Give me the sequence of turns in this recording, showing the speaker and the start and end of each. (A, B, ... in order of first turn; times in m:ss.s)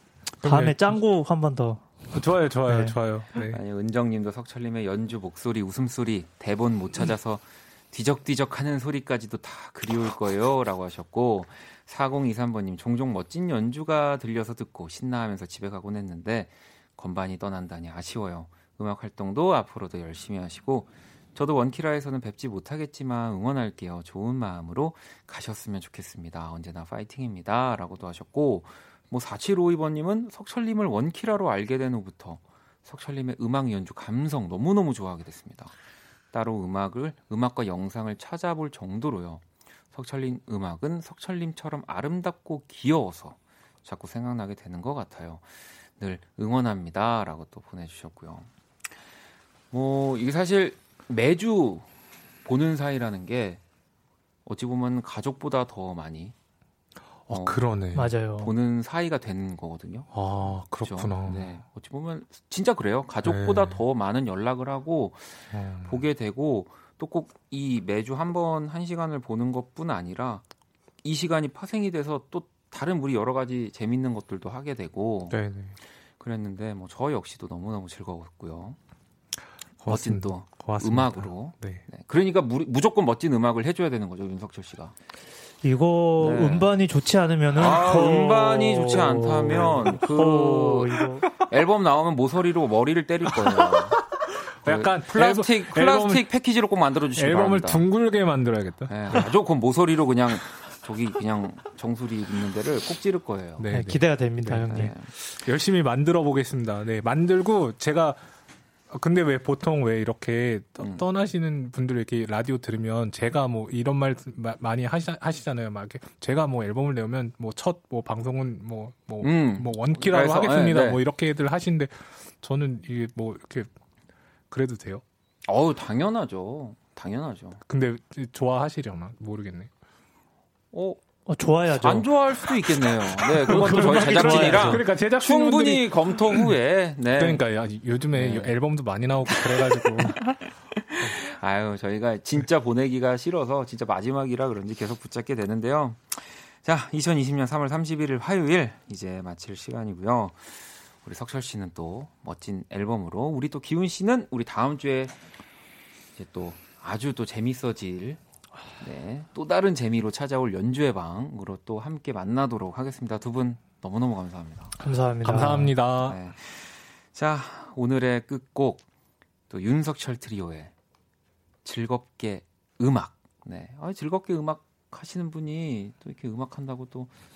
0:00.4-0:03.0 A
0:00.4-0:01.0 B
0:02.1-0:03.6 B
0:03.5-0:35.7 C
0:36.3-0:48.5 C
0:49.7-0:51.9 C
0:52.4-0:53.6 C
0:54.4-0:56.3 C
0:57.3-0:58.2 B
0:57.3-0:57.6 C
0:57.9-0:58.5 A
0:58.4-1:10.4 C
1:00.1-1:01.5 B
1:03.2-1:03.8 B
1:05.5-1:06.0 B
1:11.0-1:15.4 C
1:15.3-1:15.8 B
1:16.2-1:18.8 C
1:19.8-1:21.8 B
1:19.9-1:24.9 C
1:25.6-1:31.3 A
1:26.2-1:26.7 C
1:27.5-1:34.0 C
1:33.3-1:36.2 B
1:34.6-1:37.8 C
1:37.2-1:39.3 B
1:38.9-1:43.7 C
1:43.6-1:48.2 B
1:43.7-1:44.9 A
1:44.6-1:45.1 C
1:48.9-2:03.7 B
1:59.2-2:01.0 C
2:04.5-2:05.0 B
2:05.4-2:07.6 C
2:07.7-2:09.7 B
2:10.7-2:11.0 C
2:11.3-2:12.1 A
2:11.7-2:17.4 C
2:13.4-2:14.9 A
2:13.4-2:16.5 B
2:17.1-2:20.2 B
2:18.1-2:18.6 C
2:20.8-2:35.2 C
2:36.2-2:38.2 C
2:38.8-2:44.7 C
2:44.8-2:45.8 A
2:45.2-2:46.2 B
2:46.0-2:48.8 C
2:49.5-2:50.7 C
2:51.6-2:57.1 C